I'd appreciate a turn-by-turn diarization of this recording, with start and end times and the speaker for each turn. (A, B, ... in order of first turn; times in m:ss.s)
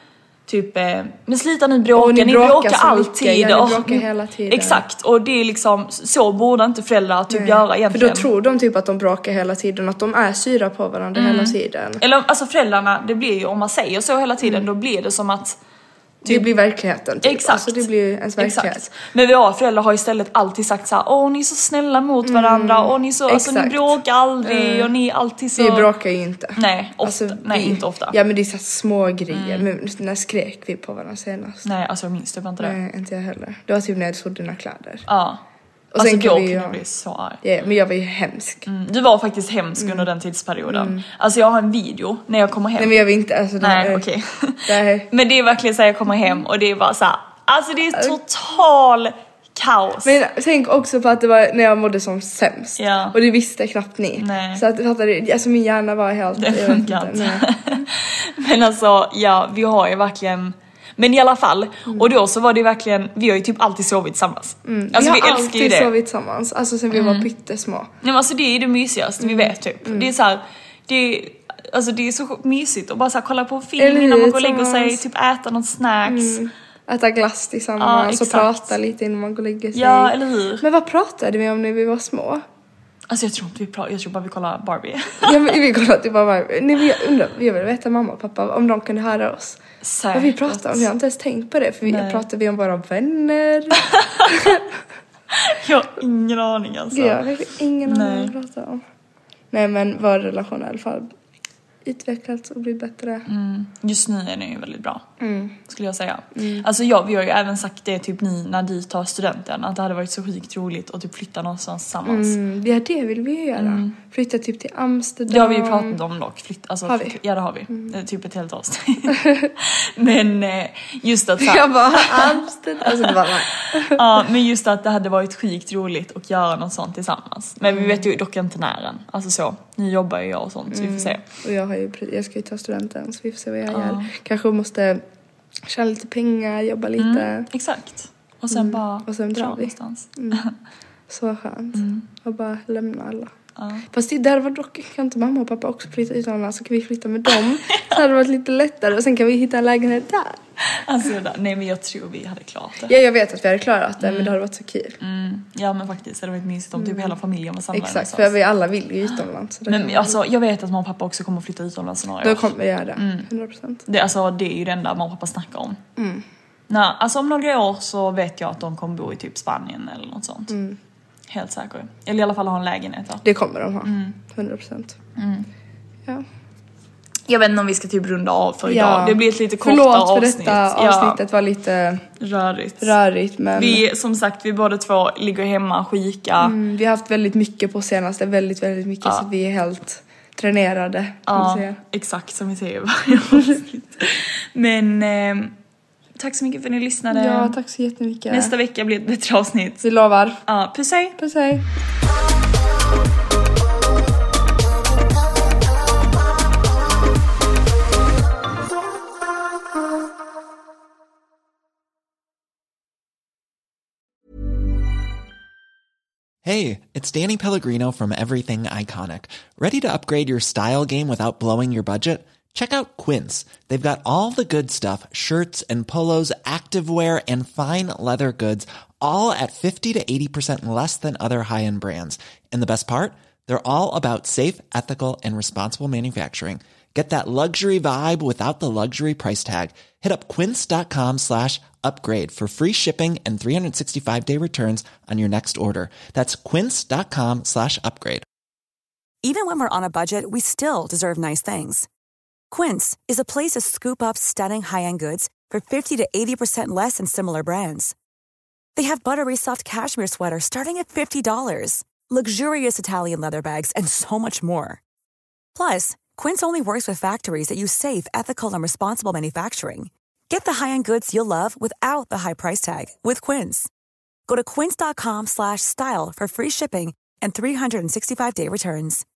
0:00.5-0:08.3 A
0:02.0-0:04.8 B
0:07.3-0:12.0 B
0:11.2-0:15.6 A
0:14.4-0:14.7 B
0:16.2-0:18.8 B
0:17.2-0:25.9 A
0:22.2-0:24.9 B
0:25.6-0:31.6 B
0:26.6-0:28.1 A
0:29.3-0:29.7 A
0:31.6-0:32.8 A
0:32.6-0:35.0 B
0:35.1-0:35.4 A
0:35.9-0:36.8 B
0:36.0-0:37.4 A
0:37.4-0:38.6 B
0:38.6-0:43.0 A
0:39.8-0:40.1 B
0:40.7-0:41.0 B
0:42.8-0:44.0 B
0:43.6-0:50.2 A
0:44.7-0:45.1 B
0:50.0-0:57.4 B
0:52.8-0:53.2 A
0:54.2-0:54.6 A
0:56.4-1:05.9 A
1:04.6-1:07.9 B
1:06.9-1:07.3 A
1:08.0-1:16.4 A
1:09.2-1:10.1 B
1:13.8-1:15.0 B
1:16.1-1:22.4 B
1:17.8-1:18.7 A
1:19.7-1:20.6 A
1:23.1-1:25.5 A
1:25.2-1:29.6 B
1:29.8-1:30.9 A
1:30.1-1:34.6 B
1:31.9-1:32.2 A
1:35.4-1:37.2 A
1:36.9-1:38.8 B
1:37.9-1:38.3 A
1:39.5-1:41.1 B
1:41.8-1:43.2 B
1:43.3-1:45.0 A
1:45.2-1:45.6 B
1:45.7-1:52.4 A
1:46.4-1:46.6 B
1:52.1-1:56.0 B
1:53.6-1:53.9 A
1:55.3-2:11.2 A
1:56.9-1:57.1 B
1:59.2-1:59.5 B
2:01.4-2:04.0 B
2:07.7-2:08.1 B
2:10.7-2:15.0 B
2:13.7-2:14.1 A
2:15.7-2:17.5 B
2:17.0-2:20.5 A
2:18.5-2:20.5 B
2:21.1-2:23.3 B
2:21.7-2:22.0 A
2:23.6-2:23.9 A
2:23.9-2:30.4 B
2:30.7-2:32.9 A
2:32.8-2:35.0 B
2:34.0-2:34.4 A
2:35.0-2:38.3 A
2:36.8-2:37.1 B
2:37.7-2:40.2 B
2:39.7-2:43.3 A
2:42.2-2:43.8 B
2:43.9-2:45.8 A
2:46.0-2:46.2 B
2:46.7-2:50.6 A
2:50.5-2:50.8 B
2:51.3-2:53.2 A
2:53.2-2:55.0 B
2:53.8-2:54.2 A
2:55.2-2:55.5 A
2:57.3-3:01.2 A
2:58.7-3:02.0 B
3:02.2-3:03.0 A
3:02.8-3:03.8 B
3:03.6-3:06.6 A
3:06.4-3:11.8 B
3:11.3-3:15.5 A
3:16.2-3:17.6 A
3:17.1-3:18.5 B
3:18.3-3:19.8 A
3:19.8-3:20.4 B
3:20.5-3:21.2 A
3:21.2-3:21.6 B
3:36.4-4:08.2 C
4:09.2-4:11.9 D
4:12.5-4:17.9 D
4:18.8-4:24.8 D
4:25.6-4:33.7 D
4:34.3-4:39.0 D